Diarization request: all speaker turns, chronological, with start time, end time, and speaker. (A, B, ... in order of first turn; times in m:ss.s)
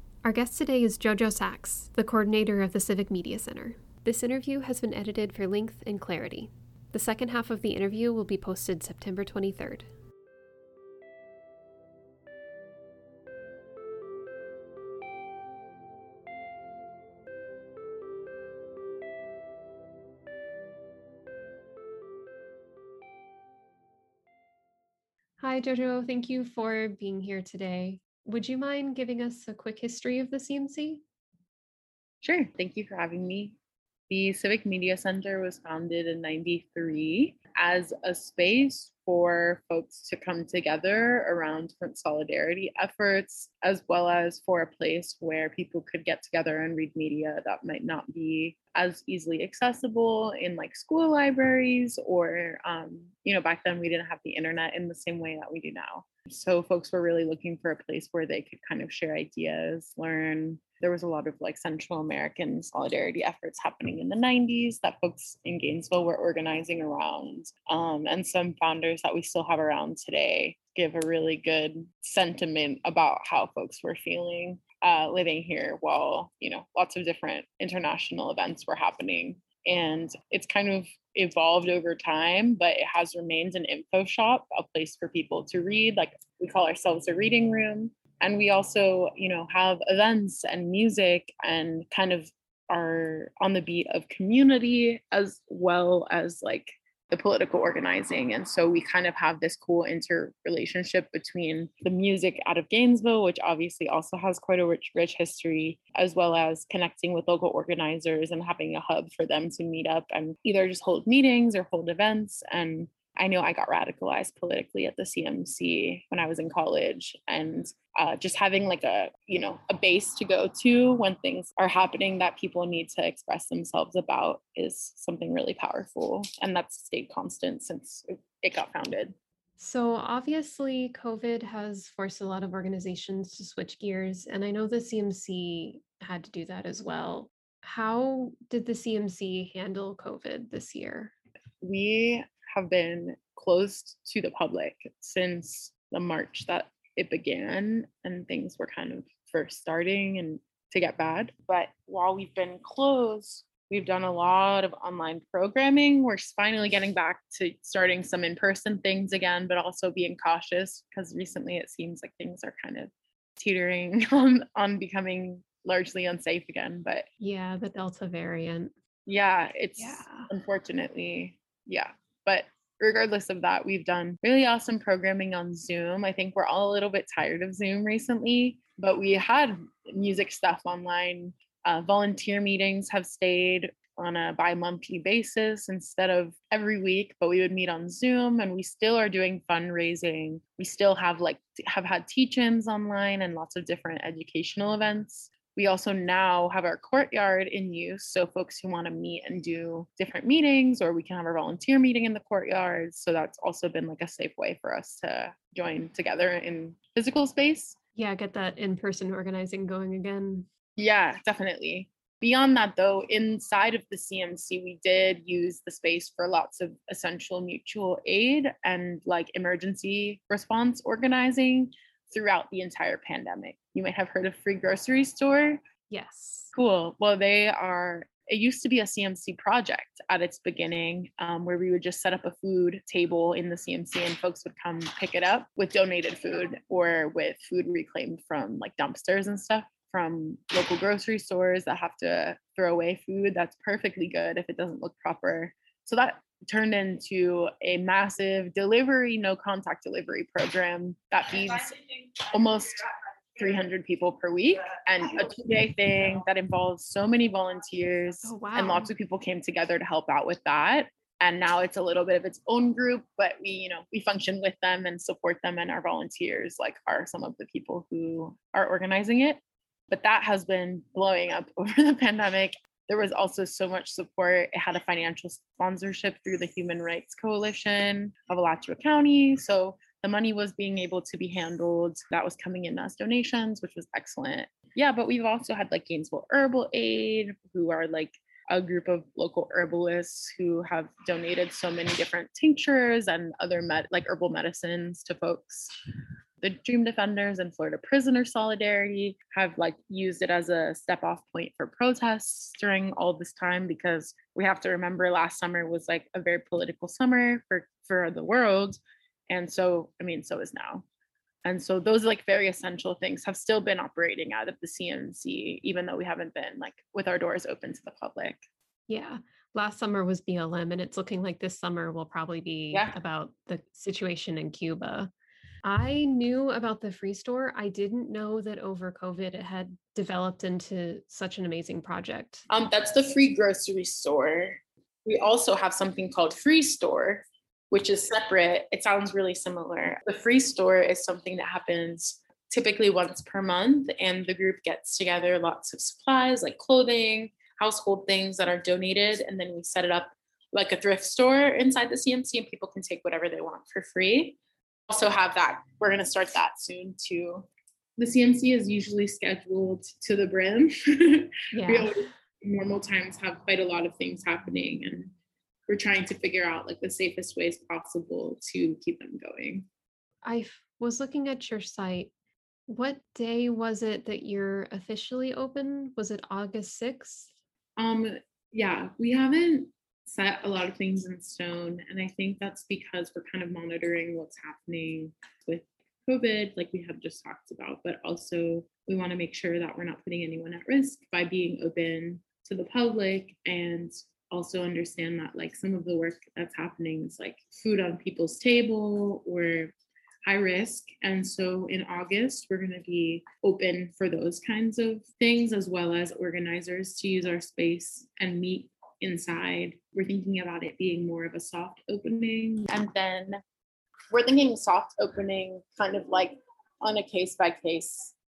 0:00.2-0:09.9 A
0:25.4-0:31.0 A
0:32.2-0:33.6 B
0:34.1-2:09.2 B
2:09.6-2:21.1 A
2:21.6-2:47.0 B
2:47.2-2:48.7 A
2:49.1-3:27.8 B
2:49.8-2:50.3 A
3:27.9-3:30.5 A
3:30.8-3:45.6 B
3:45.9-3:46.5 A
3:46.5-4:12.8 B
4:13.4-4:55.7 B
4:18.2-4:18.9 A
4:56.4-5:10.8 B
5:11.4-5:18.4 B
5:18.9-5:25.1 A
5:22.7-5:23.0 B
5:25.6-5:32.4 A
5:32.5-5:54.4 B
5:54.9-6:05.1 B
6:01.5-6:02.1 A
6:05.7-6:09.6 B
6:10.2-6:12.1 A
6:12.7-6:17.3 A
6:17.8-6:53.4 B
6:54.1-6:58.1 B